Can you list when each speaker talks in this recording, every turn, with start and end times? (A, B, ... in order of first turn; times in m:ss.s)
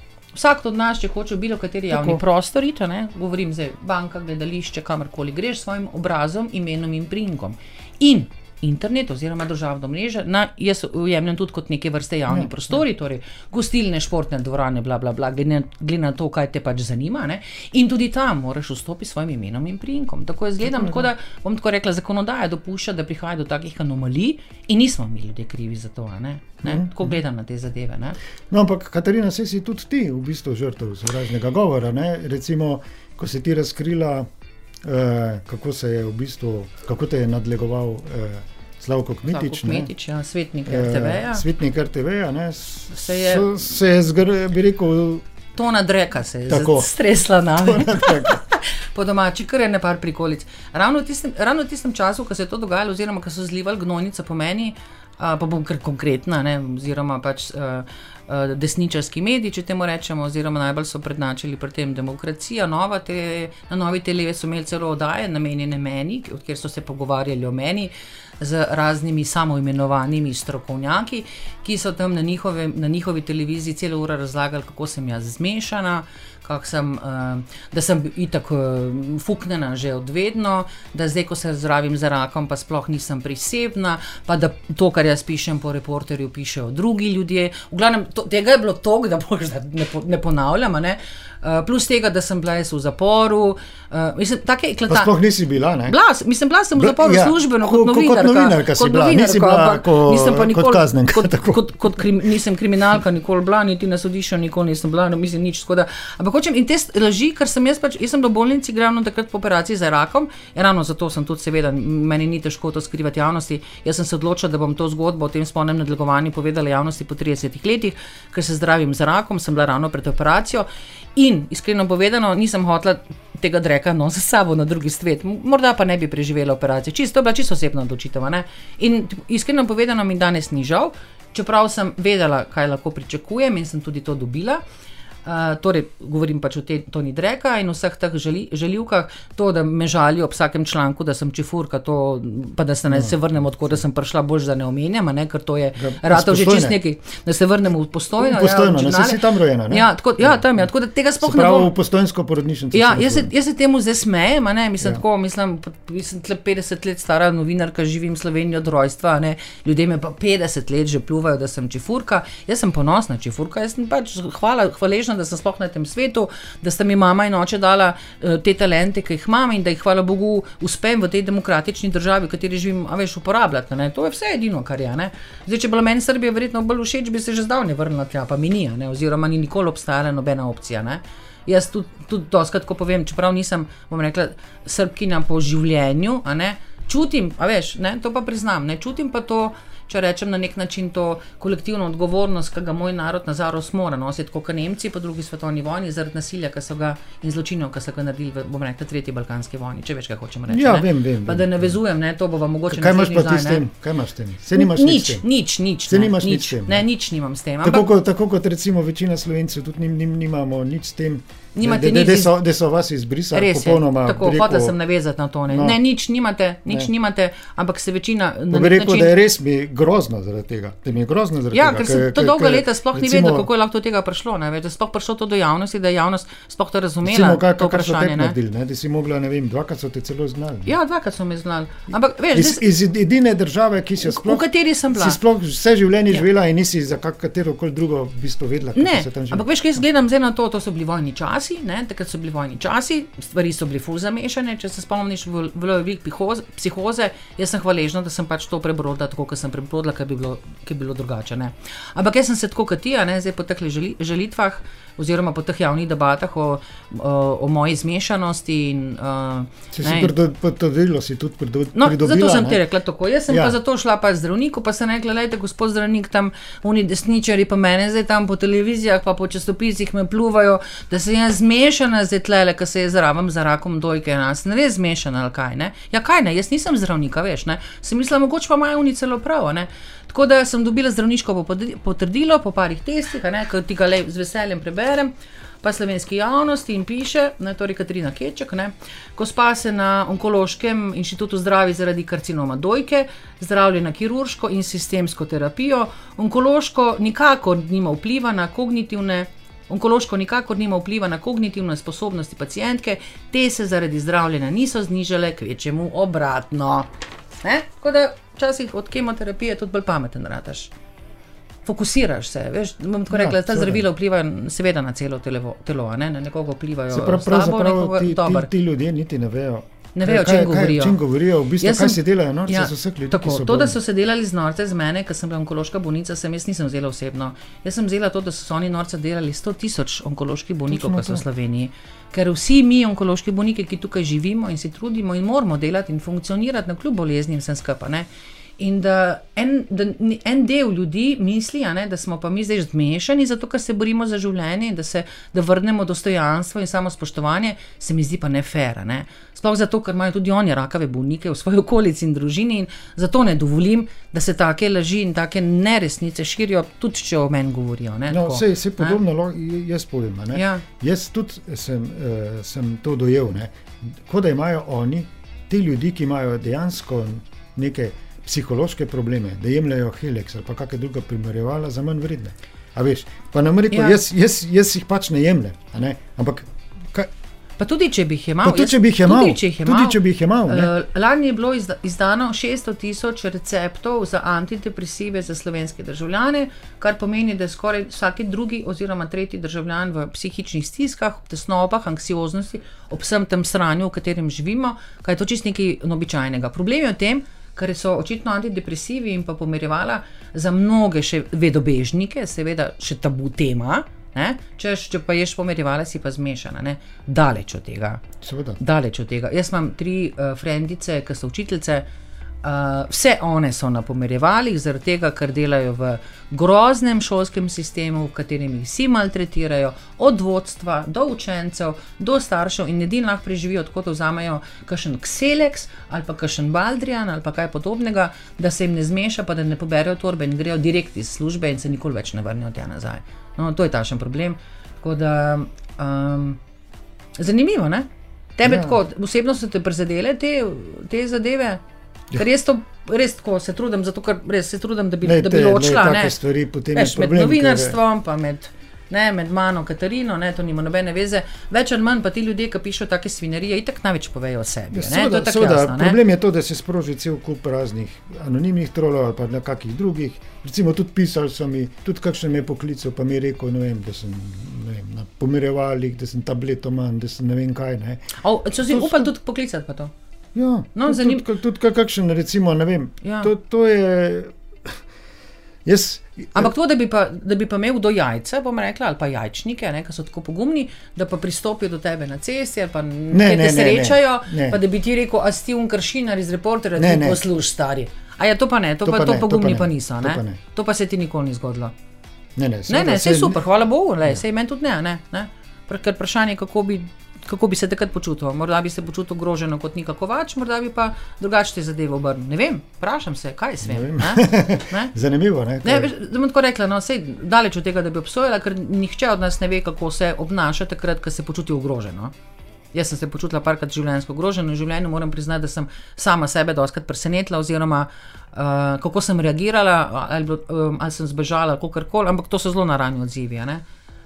0:00.4-0:28.2 A
0:01.9-0:02.2 B
0:12.3-0:12.8 B
0:20.6-0:21.1 B
0:26.6-0:27.2 B
0:28.5-0:34.3 B
0:34.8-0:39.9 B
0:39.3-0:41.4 A
0:40.7-0:45.2 B
0:42.9-0:43.5 A
0:45.6-1:35.1 A
0:46.5-0:46.9 B
0:47.5-0:48.4 B
1:34.9-1:36.0 B
1:35.9-2:14.6 A
1:36.8-1:42.1 B
2:15.2-2:31.7 A
2:25.8-2:26.8 B
2:28.2-2:30.7 B
2:31.2-2:33.3 B
2:32.7-3:23.6 A
3:20.5-3:21.8 B
3:22.7-3:25.3 B
3:24.5-3:27.9 A
3:25.9-3:26.9 B
3:27.6-3:34.8 B
3:31.6-3:32.4 A
3:33.3-3:39.1 A
3:35.5-3:35.8 B
3:38.5-3:43.5 B
3:41.5-3:48.4 A
3:47.0-3:50.8 B
3:50.7-3:52.6 A
3:52.3-3:59.5 B
3:54.0-3:55.2 A
3:58.8-4:20.1 A
4:19.7-4:22.6 B
4:21.8-5:06.9 A
4:23.3-4:23.6 B
5:07.4-5:10.7 A
5:11.6-5:18.5 A
5:13.1-5:13.8 B
5:16.9-5:23.8 B
5:20.0-5:21.0 A
5:21.6-5:38.1 A
5:30.7-5:31.2 B
5:38.6-5:59.0 A
5:58.1-6:17.1 B
6:00.3-6:00.6 A
6:13.7-6:14.0 A
6:17.6-6:48.0 A
6:18.4-6:20.7 B
6:48.2-6:48.6 B
6:48.6-6:51.9 A
6:52.4-7:16.4 A
7:17.2-7:21.6 A
7:18.4-7:18.8 B
7:22.1-7:26.2 A
7:25.0-7:27.8 B
7:26.7-7:36.0 A
7:34.7-7:49.1 B
7:48.2-7:49.9 A
7:50.4-7:54.8 B
7:50.8-7:51.2 A
7:53.0-7:53.3 A
7:55.6-7:56.5 B
7:56.3-8:11.7 A
8:03.1-8:04.6 B
8:06.8-8:07.2 B
8:08.8-8:10.4 B
8:12.4-8:13.4 B
8:12.7-8:24.9 A
8:23.6-8:25.9 B
8:25.6-8:32.1 A
8:32.7-8:43.6 A